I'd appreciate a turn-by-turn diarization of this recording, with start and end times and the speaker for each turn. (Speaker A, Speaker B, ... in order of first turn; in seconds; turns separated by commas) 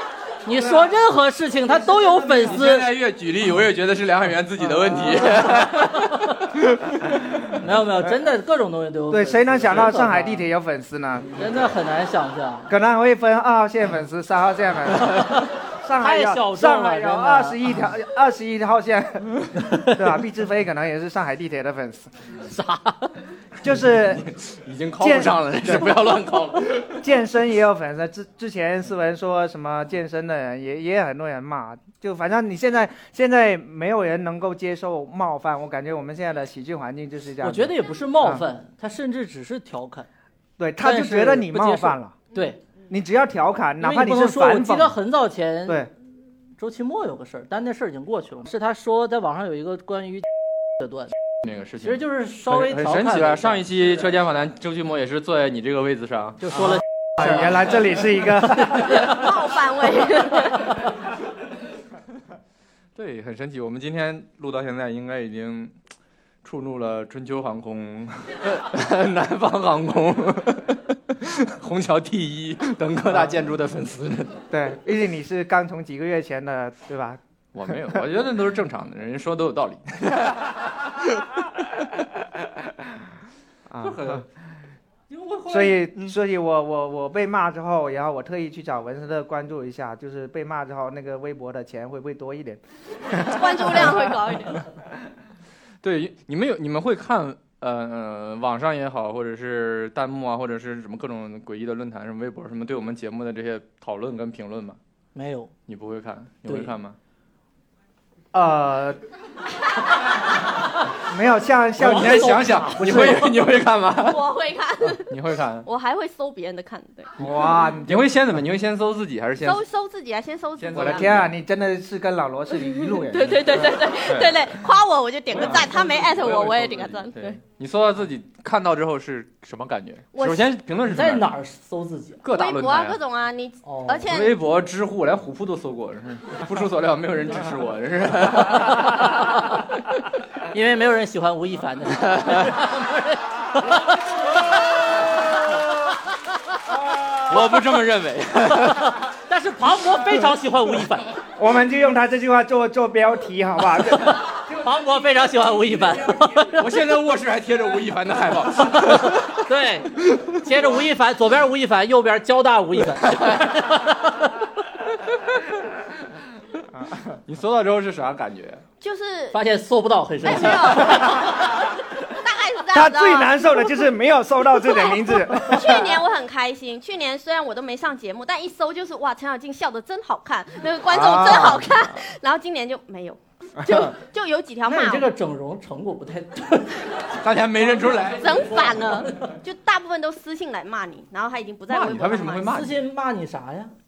Speaker A: 0.4-2.9, Speaker B: 0.5-0.9, Speaker C: 2.3-7.1, Speaker B: 4.6-5.3, Speaker A: 5.4-6.4, Speaker A: 7.6-10.4, Speaker B: 9.1-11.5, Speaker A: 11.3-12.7, Speaker B: 12.7-22.1, Speaker A: 15.1-17.6, Speaker A: 22.4-23.1, Speaker B: 23.6-24.3, Speaker C: 24.1-27.1, Speaker B: 25.0-26.1, Speaker B: 26.9-38.4, Speaker A: 37.4-40.1, Speaker B: 40.6-42.1, Speaker A: 40.8-42.6, Speaker B: 42.9-45.0, Speaker A: 43.8-45.9, Speaker A: 46.6-50.2, Speaker A: 50.8-51.1, Speaker C: 51.4-57.6, Speaker A: 51.8-53.6, Speaker A: 56.4-57.5, Speaker B: 57.2-59.2, Speaker D: 58.9-60.8, Speaker C: 63.0-65.7, Speaker C: 66.4-74.5, Speaker B: 73.1-73.3, Speaker B: 74.5-78.0, Speaker C: 77.5-81.2, Speaker B: 83.7-84.2, Speaker C: 83.8-84.2, Speaker C: 85.1-86.0, Speaker B: 85.5-94.0, Speaker D: 93.2-94.7, Speaker C: 95.8-104.8, Speaker A: 105.1-105.5, Speaker C: 105.7-107.0, Speaker A: 106.5-106.7, Speaker B: 108.3-109.0, Speaker B: 111.0-113.3, Speaker A: 111.8-113.3, Speaker C: 111.8-114.3, Speaker D: 114.0-117.1, Speaker C: 115.0-115.7, Speaker B: 117.2-118.1, Speaker C: 117.8-119.6, Speaker D: 119.4-121.2, Speaker C: 120.6-121.3, Speaker B: 120.7-123.8, Speaker D: 122.9-127.4, Speaker C: 123.5-124.4, Speaker C: 125.3-131.2, Speaker D: 130.1-130.5, Speaker A: 130.8-132.2, Speaker C: 132.2-133.0, Speaker D: 132.3-134.3, Speaker A: 133.6-134.1, Speaker C: 134.1-139.2, Speaker A: 140.5-145.6, Speaker C: 142.0-142.6, Speaker C: 147.1-149.0, Speaker A: 148.6-151.1, Speaker B: 151.3-154.2, Speaker A: 154.1-156.6, Speaker C: 156.5-159.4, Speaker A: 158.7-164.4, Speaker C: 163.1-163.4, Speaker B: 166.7-167.1, Speaker C: 167.3-168.6, Speaker D: 168.8-169.4, Speaker A: 169.3-171.2, Speaker D: 170.2-173.8, Speaker B: 172.7-176.0, Speaker D: 174.6-185.1, Speaker B: 180.9-181.7, Speaker B: 183.6-183.9, Speaker A: 184.7-187.2, Speaker C: 187.2-188.8, Speaker A: 187.8-189.3, Speaker D: 188.2-192.5, Speaker C: 191.7-192.8, Speaker A: 192.5-193.7